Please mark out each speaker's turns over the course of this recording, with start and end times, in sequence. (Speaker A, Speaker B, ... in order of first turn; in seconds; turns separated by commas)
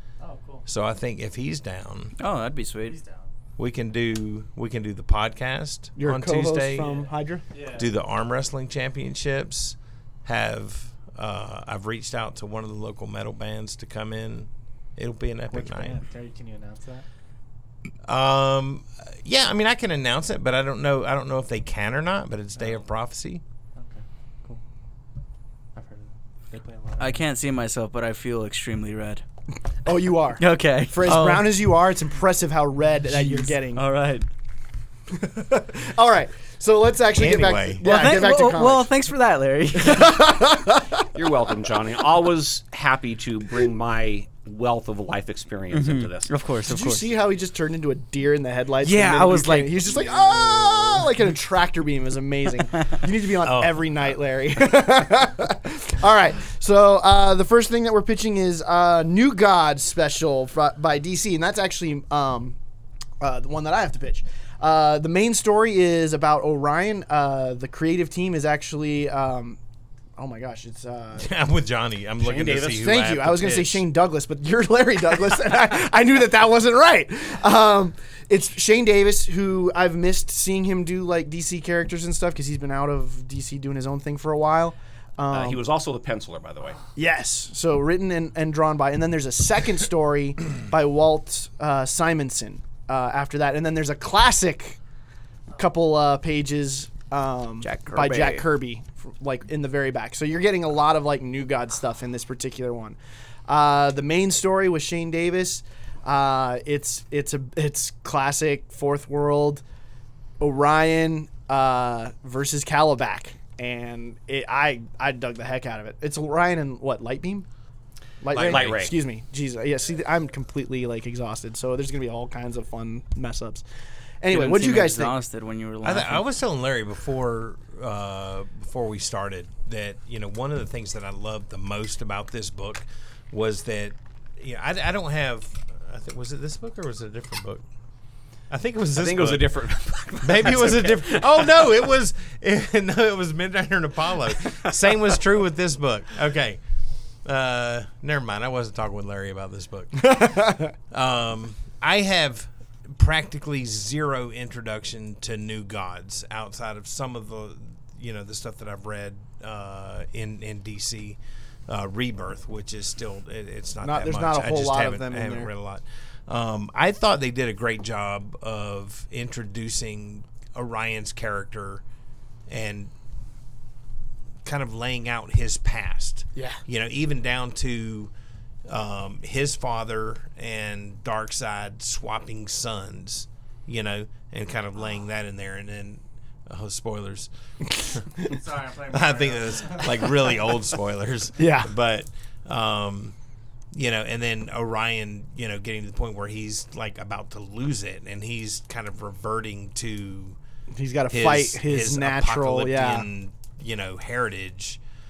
Speaker A: 0.2-0.7, Speaker B: 0.7-2.1, Speaker C: 2.2-3.0, Speaker A: 2.9-3.3, Speaker B: 3.6-7.0, Speaker D: 6.0-7.4, Speaker A: 7.5-7.9, Speaker B: 7.8-16.0, Speaker A: 15.5-17.1, Speaker B: 18.1-23.4, Speaker A: 23.8-24.6, Speaker A: 25.7-27.2, Speaker C: 27.0-29.2, Speaker D: 29.9-33.8, Speaker C: 30.4-31.3, Speaker B: 31.0-31.6, Speaker C: 33.1-34.3, Speaker D: 35.1-38.9, Speaker B: 37.1-37.9, Speaker C: 37.8-40.2, Speaker D: 39.8-41.1, Speaker E: 41.1-46.3, Speaker C: 45.7-47.1, Speaker D: 46.7-62.6, Speaker C: 48.8-50.1, Speaker B: 53.4-53.9, Speaker D: 63.2-69.6, Speaker D: 70.2-71.3, Speaker B: 71.2-73.8, Speaker E: 72.2-72.9, Speaker D: 72.8-85.6, Speaker E: 85.3-86.8, Speaker D: 87.0-94.8, Speaker D: 95.6-109.6, Speaker C: 97.6-98.5, Speaker D: 110.4-117.5, Speaker D: 118.2-123.6, Speaker E: 118.3-119.0, Speaker B: 118.3-118.9, Speaker D: 124.2-125.1, Speaker C: 124.3-126.3, Speaker B: 125.8-137.7, Speaker B: 138.5-139.5, Speaker E: 139.0-141.7, Speaker B: 140.2-146.6, Speaker B: 147.2-171.8, Speaker D: 150.0-150.7, Speaker D: 163.8-165.5, Speaker B: 172.5-172.9, Speaker B: 174.4-178.1, Speaker B: 178.7-187.3, Speaker D: 187.7-188.0, Speaker A: 188.2-190.4, Speaker B: 188.9-193.2, Speaker D: 191.4-191.7, Speaker B: 193.7-200.4, Speaker D: 200.7-203.1, Speaker B: 201.1-204.8